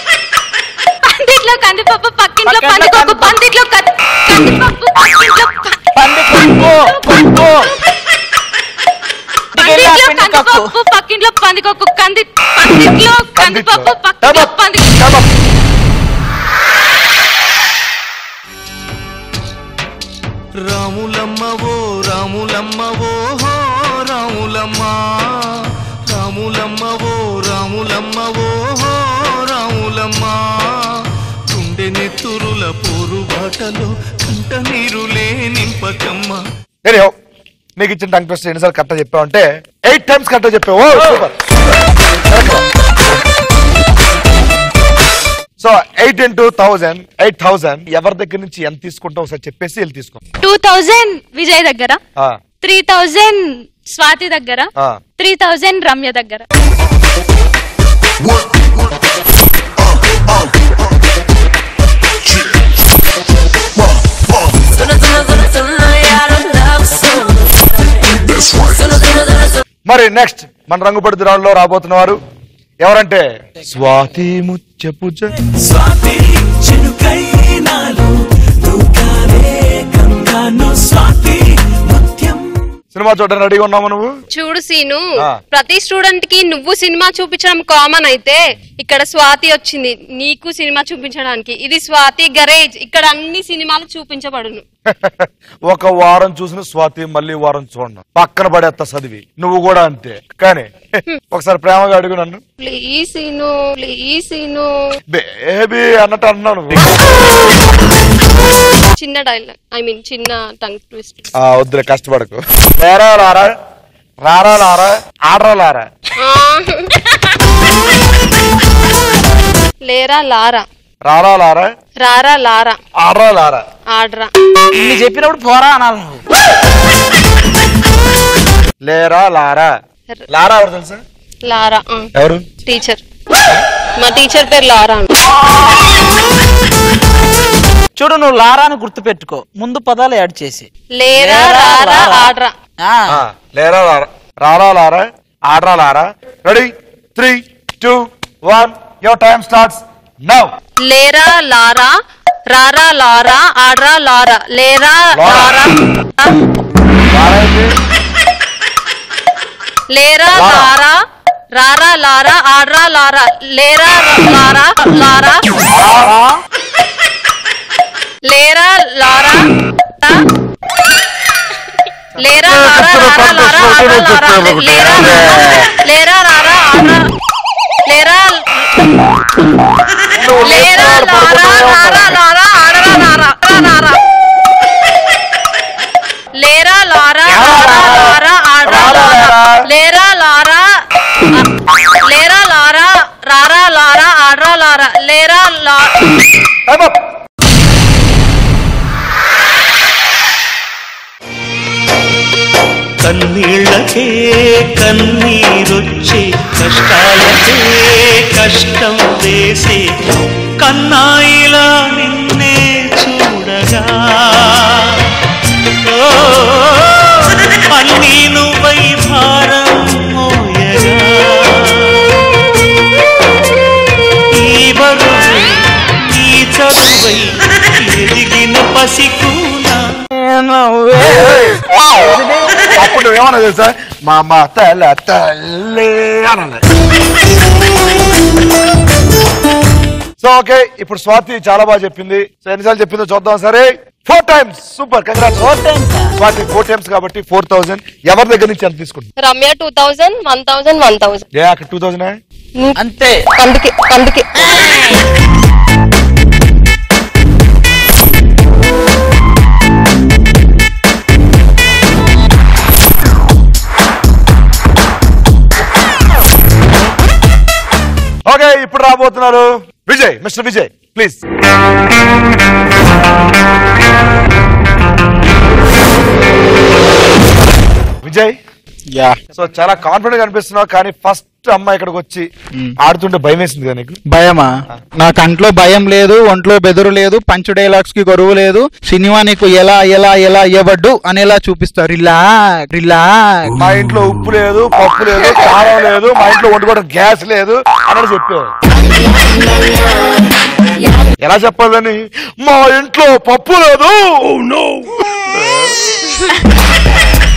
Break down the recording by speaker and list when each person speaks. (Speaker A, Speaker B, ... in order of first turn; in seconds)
Speaker A: 1.1-5.8, 6.4-7.5, 9.6-15.0, 50.4-52.0, 52.6-56.4
Speaker B: 2.4-3.3, 5.9-7.6, 9.5-10.7, 124.7-126.2, 137.9-143.1, 230.2-231.4, 231.9-232.7, 245.4-246.1, 252.8-253.1
Speaker C: 13.3-15.3, 36.8-37.1, 37.8-42.6, 45.6-50.2, 69.9-72.2, 72.8-75.3, 82.9-84.1, 94.9-100.7, 101.3-102.4, 105.1-107.2, 111.4-113.5, 114.2-115.8, 121.0-121.7, 123.0-123.6, 128.8-129.7, 130.3-131.0, 132.2-132.4, 143.1-150.5, 155.1-155.6, 157.1-157.7, 160.3-160.7, 165.8-166.2, 172.4-175.6, 180.2-182.1, 187.3-188.0, 188.6-189.5, 196.7-197.0, 231.1-231.6, 232.8-236.6, 240.2-245.6, 246.2-249.1, 251.3-252.1, 268.2-271.2, 278.0-278.3, 279.3-282.2, 282.8-284.0, 293.6-298.5, 301.2-306.1
Speaker D: 20.6-25.0, 26.1-30.5, 31.5-36.4
Speaker E: 84.3-94.6, 102.6-104.7, 109.0-111.2, 116.2-116.9, 119.8-120.6, 122.0-122.8, 123.9-124.3, 131.4-132.1, 132.7-133.0, 134.0-135.1, 140.9-142.5, 150.9-151.9, 152.5-156.3, 159.9-160.9, 161.5-165.5, 168.3-169.4, 170.0-170.2, 172.2-177.0, 177.9-179.0, 180.4-184.0, 186.4-190.6, 192.0-195.9, 249.2-251.2, 253.4-254.9
Speaker F: 203.0-209.9, 210.6-214.9, 215.9-222.0, 224.4-225.6, 226.1-229.8
Speaker G: 278.9-279.2, 284.1-284.5, 285.0-293.5